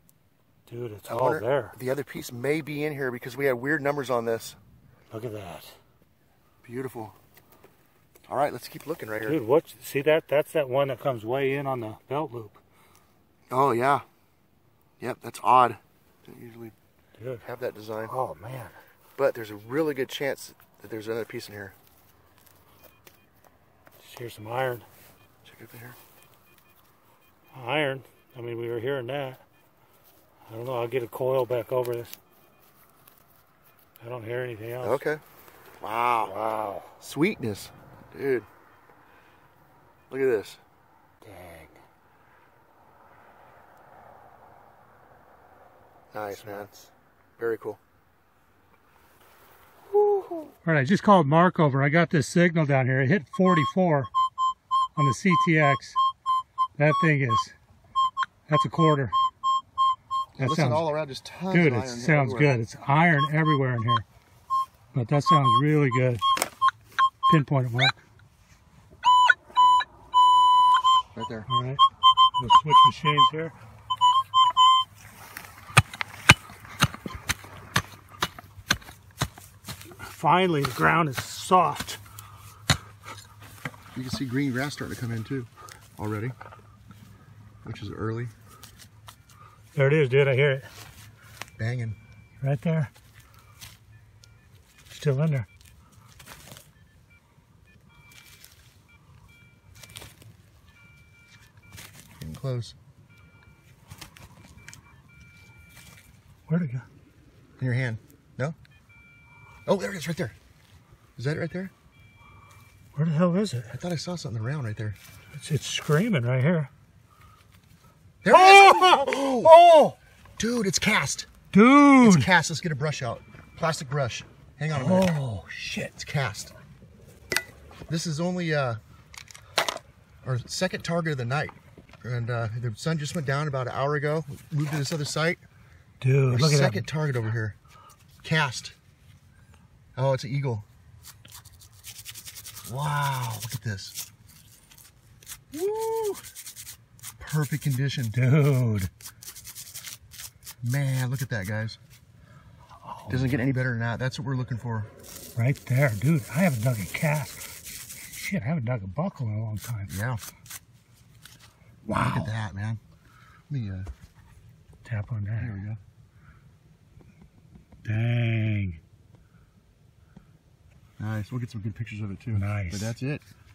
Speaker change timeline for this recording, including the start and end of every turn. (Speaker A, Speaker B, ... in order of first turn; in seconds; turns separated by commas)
Speaker A: 0.7-1.8, Speaker B: 1.1-4.6, Speaker A: 5.1-5.7, Speaker B: 6.6-7.2, Speaker B: 8.3-9.4, Speaker A: 9.2-12.6, Speaker B: 13.5-14.0, Speaker B: 15.0-16.7, Speaker A: 17.2-17.4, Speaker B: 17.4-18.1, Speaker A: 18.0-18.8, Speaker B: 19.2-21.8, Speaker A: 24.0-24.9, Speaker B: 25.4-26.0, Speaker A: 27.5-29.4, Speaker A: 30.5-32.2, Speaker A: 34.0-35.0, Speaker B: 34.8-35.2, Speaker B: 35.8-36.3, Speaker A: 36.2-36.9, Speaker B: 37.0-38.5, Speaker B: 40.1-40.6, Speaker A: 41.2-41.7, Speaker B: 46.1-46.7, Speaker A: 46.3-46.9, Speaker B: 47.4-47.8, Speaker B: 50.1-50.4, Speaker A: 50.6-54.1, Speaker A: 55.0-56.0, Speaker A: 56.8-57.5, Speaker A: 58.5-59.1, Speaker B: 60.4-62.6, Speaker A: 60.4-60.9, Speaker A: 61.5-64.0, Speaker A: 64.9-66.2, Speaker A: 67.3-68.0, Speaker B: 71.1-71.5, Speaker A: 71.5-71.8, Speaker A: 72.4-73.5, Speaker A: 80.0-82.0, Speaker B: 83.9-86.3, Speaker B: 87.6-88.3, Speaker A: 89.7-90.7, Speaker B: 91.6-92.0, Speaker A: 92.4-92.9, Speaker A: 94.9-95.5, Speaker B: 102.2-102.7, Speaker A: 106.5-106.8, Speaker B: 107.6-108.5, Speaker B: 109.7-110.3, Speaker B: 111.2-111.7, Speaker A: 112.9-113.7, Speaker B: 113.7-115.0, Speaker A: 115.3-116.7, Speaker B: 118.2-119.5, Speaker A: 118.3-120.0, Speaker B: 120.4-121.3, Speaker A: 121.5-122.3, Speaker B: 122.0-125.1, Speaker A: 124.7-125.9, Speaker B: 126.0-126.5, Speaker B: 127.9-128.8, Speaker B: 130.2-135.4, Speaker A: 136.0-136.9, Speaker B: 136.3-137.6, Speaker B: 138.2-138.8, Speaker B: 139.9-140.7, Speaker B: 142.6-144.0, Speaker B: 145.5-146.2, Speaker B: 147.2-148.2, Speaker A: 148.1-148.9, Speaker B: 150.6-151.8, Speaker A: 152.8-153.3, Speaker B: 153.1-154.9, Speaker A: 155.3-157.5, Speaker A: 158.1-159.9, Speaker B: 159.9-160.2, Speaker A: 161.8-162.3, Speaker B: 161.9-162.8, Speaker B: 163.5-163.9, Speaker A: 164.8-165.6, Speaker B: 165.4-165.8, Speaker A: 167.8-168.8, Speaker B: 171.0-173.2, Speaker A: 172.3-172.9